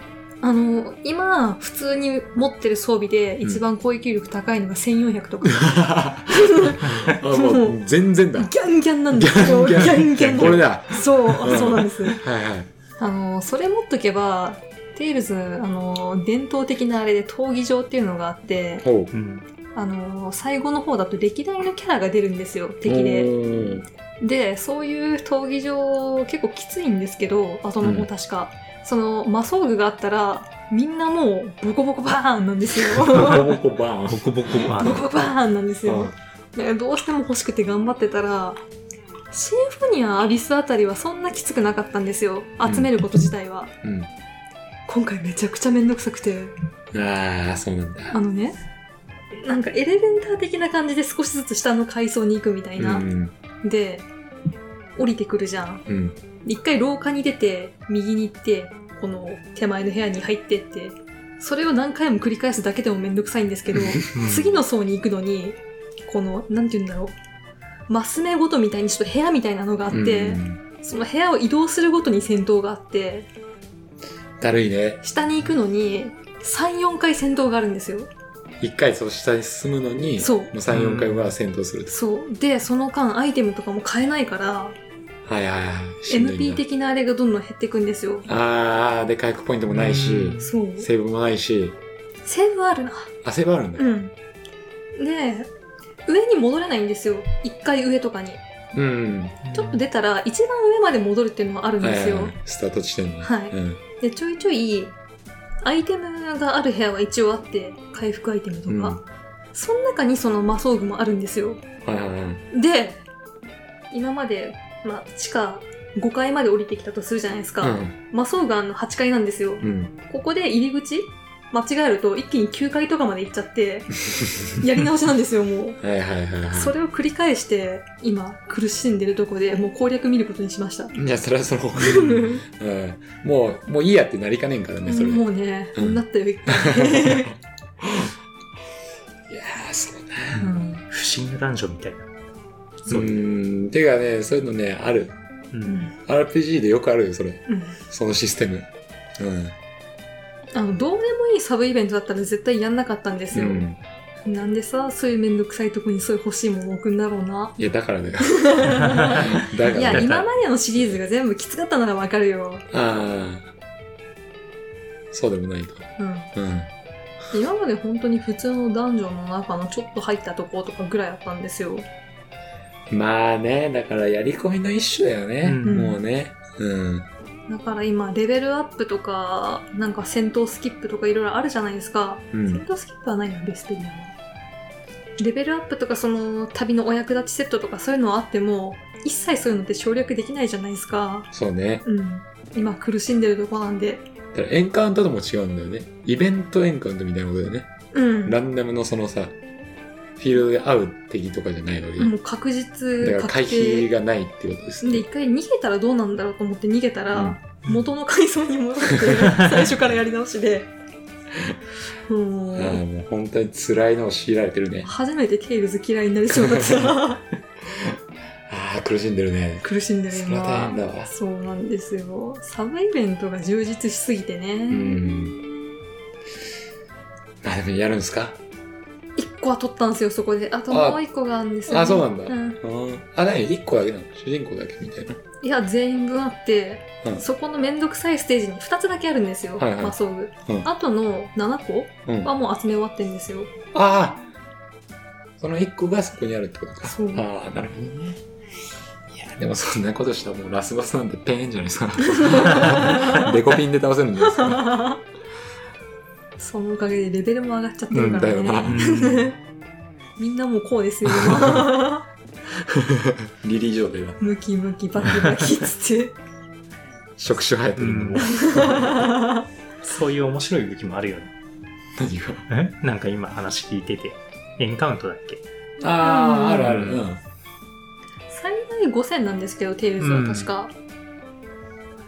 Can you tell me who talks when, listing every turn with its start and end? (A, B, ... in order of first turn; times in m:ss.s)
0:00.4-0:07.8 A
0:05.4-0:08.5 B
0:08.4-0:12.2 A
0:09.1-0:12.7 B
0:10.0-0:10.6 C
0:13.0-0:18.8 A
0:18.8-0:19.1 B
0:19.1-0:19.4 C
0:19.7-0:23.3 A
0:22.8-0:23.8 B
0:24.2-0:33.5 A
0:27.8-0:28.1 B
0:32.9-0:34.7 B
0:33.2-0:33.4 C
0:34.1-0:35.1 C
0:34.6-0:38.6 A
0:35.8-0:36.1 B
0:39.3-0:43.7 A
0:42.6-0:42.9 B
0:43.8-0:44.1 B
0:44.9-0:46.5 A
0:46.9-0:48.2 B
0:48.1-0:48.6 A
0:49.4-0:53.1 A
0:52.8-0:53.3 B
0:53.6-0:54.1 A
0:55.0-0:55.8 A
0:55.9-0:56.2 B
0:56.4-1:07.1 A
1:03.7-1:04.0 B
1:04.1-1:04.6 C
1:07.9-1:13.3 A
1:09.9-1:10.6 B
1:14.4-1:15.0 B
1:15.0-1:18.1 A
1:18.6-1:22.0 B
1:20.2-1:20.5 A
1:20.7-1:21.3 C
1:21.9-1:24.8 A
1:25.2-1:26.6 B
1:26.1-1:28.3 A
1:28.2-1:31.8 B
1:29.7-1:30.5 C
1:30.4-1:30.9 A
1:32.2-1:33.1 A
1:33.2-1:33.9 B
1:33.8-1:34.1 A
1:35.0-1:35.5 A
1:36.0-1:38.4 A
1:38.7-1:39.4 B
1:39.4-1:39.8 C
1:39.5-1:42.3 A
1:41.8-1:43.8 B
1:43.2-1:45.0 A
1:45.6-1:49.0 A
1:48.7-1:49.0 B
1:49.5-1:51.6 A
1:51.8-1:52.4 B
1:52.5-1:53.0 A
1:53.9-2:05.8 A
1:57.6-1:58.0 B
1:59.6-1:59.9 B
2:04.1-2:04.5 B
2:05.8-2:06.7 B
2:06.5-2:10.9 A
2:10.9-2:18.1 B
2:11.8-2:12.4 A
2:14.8-2:17.3 A
2:19.3-2:20.5 B
2:20.4-2:20.8 A
2:20.9-2:22.1 C
2:22.9-2:23.2 C
2:22.9-2:25.1 B
2:25.5-2:25.8 C
2:25.6-2:25.9 A
2:26.0-2:29.6 B
2:27.5-2:27.8 A
2:30.5-2:33.6 A
2:33.3-2:33.8 B
2:34.2-2:37.6 A
2:37.6-2:41.0 B
2:38.2-2:42.7 A
2:38.8-2:39.2 C
2:39.9-2:40.2 C
2:42.7-2:43.5 B
2:45.1-2:46.7 B
2:46.0-2:46.3 A
2:47.3-2:51.8 A
2:52.9-2:57.1 B
2:55.4-2:55.8 C
2:55.6-2:56.0 A
2:57.5-3:04.1 A
3:02.3-3:02.6 B
3:05.2-3:11.3 A
3:11.3-3:11.8 B
3:11.8-3:14.0 A
3:14.3-3:17.7 B
3:17.9-3:18.4 A
3:18.2-3:19.4 B
3:20.2-3:22.1 B
3:22.0-3:23.9 A
3:23.0-3:25.0 B
3:24.8-3:30.7 A
3:27.1-3:27.4 B
3:32.1-3:32.8 A
3:32.5-3:34.9 B
3:34.8-3:37.2 A
3:36.3-3:37.1 B
3:37.6-3:41.1 B
3:39.6-3:45.8 A
3:44.7-3:45.4 B
3:47.4-3:48.4 B
3:49.2-3:52.6 A
3:50.7-3:51.0 B
3:51.7-3:55.2 B
3:55.4-4:03.5 A
3:59.6-4:00.7 B
4:02.0-4:02.3 B
4:03.7-4:04.2 B
4:05.4-4:08.2 B
4:06.8-4:07.2 A
4:09.1-4:14.8 B
4:12.1-4:13.3 A
4:14.2-4:15.0 A
4:16.4-4:19.4 A
4:17.9-4:18.9 B
4:18.6-4:19.3 C
4:20.2-4:22.0 A
4:21.0-4:21.7 B
4:22.6-4:24.2 B
4:24.2-4:26.1 A
4:27.2-4:29.1 B
4:27.8-4:28.8 C
4:28.2-4:29.4 A
4:29.8-4:31.3 C
4:32.0-4:32.4 B
4:32.5-4:35.4 C
4:35.8-4:37.2 B
4:36.0-4:36.8 A
4:36.6-4:37.0 C
4:38.3-4:40.7 A
4:40.0-4:40.5 C